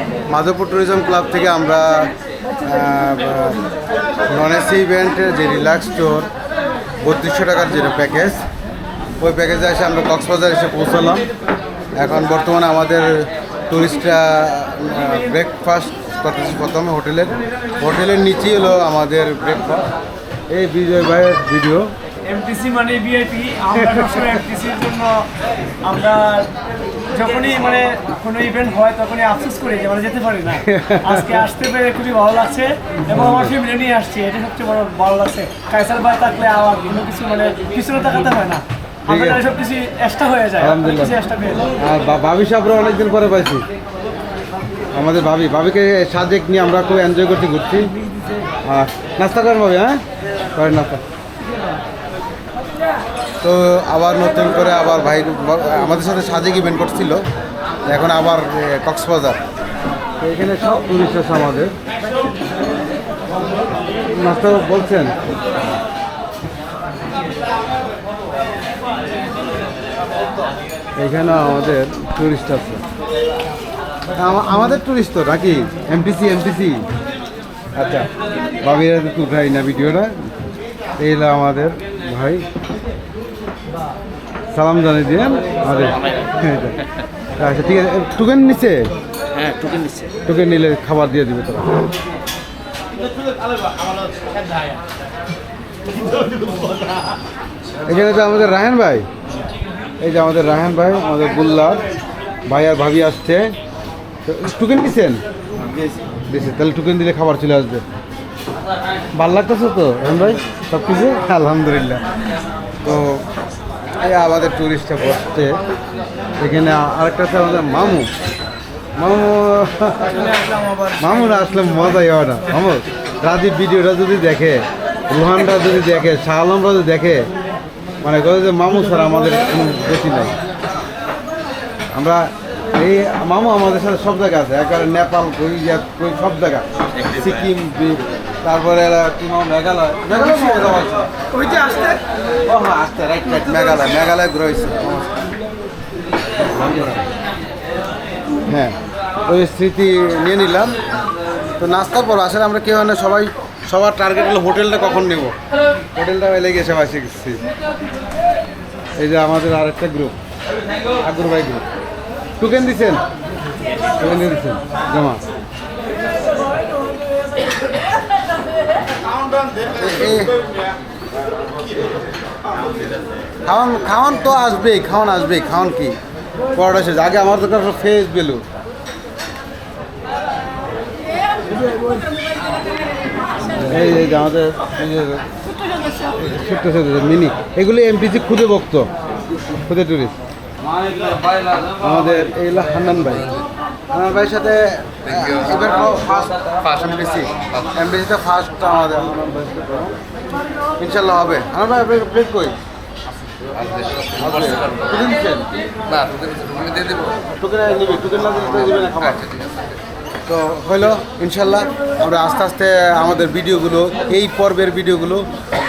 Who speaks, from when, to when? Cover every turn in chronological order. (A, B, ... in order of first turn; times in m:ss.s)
0:00.3-0:03.6 A
0:04.3-0:06.3 A
0:07.0-0:08.4 A
0:09.2-0:11.2 A
0:12.0-0:19.9 A
0:20.5-0:21.9 A
0:22.3-0:25.2 B
0:23.7-0:24.3 A
0:25.8-0:26.5 B
0:27.1-0:41.7 B
0:30.6-0:31.4 A
0:33.1-0:33.6 A
0:39.1-0:39.4 A
0:40.6-0:41.2 A
0:41.8-0:43.6 A
0:44.9-0:48.0 A
0:48.6-0:50.0 A
0:50.5-0:51.0 A
0:53.4-0:57.2 A
0:57.9-0:59.4 A
1:00.2-1:01.7 A
1:04.1-1:05.2 A
1:11.0-1:12.8 A
1:14.2-1:16.8 A
1:17.7-1:18.1 A
1:18.6-1:20.1 A
1:21.0-1:22.4 A
1:24.5-1:26.8 A
1:27.4-1:28.9 A
1:29.4-1:30.1 C
1:30.2-1:31.8 A
1:37.8-1:39.0 A
1:40.0-1:41.8 A
1:42.5-1:43.5 A
1:44.2-1:45.2 A
1:46.3-1:47.8 A
1:49.1-1:52.0 A
1:52.8-1:53.2 A
1:54.0-1:55.6 A
1:56.4-1:58.1 A
1:59.0-2:00.3 A
2:01.0-2:07.3 A
2:08.0-2:10.3 A
2:11.9-2:21.7 A
2:22.4-2:25.1 A
2:26.4-2:27.1 A
2:28.5-2:30.8 A
2:31.6-2:35.4 A
2:35.9-2:37.4 A
2:39.0-2:40.2 A
2:41.0-2:41.6 A
2:42.4-2:43.0 A
2:44.0-2:45.2 A
2:49.7-2:50.3 A
2:53.4-2:56.0 A
2:56.5-2:58.4 A
3:03.4-3:05.2 A
3:06.1-3:08.9 A
3:09.6-3:10.2 A
3:10.9-3:11.7 C
3:11.8-3:13.3 A
3:13.9-3:19.9 A
3:20.8-3:22.6 A
3:23.6-3:24.7 C
3:24.2-3:25.5 A
3:25.8-3:27.1 C
3:27.1-3:29.3 A
3:29.3-3:29.7 C
3:30.2-3:35.2 A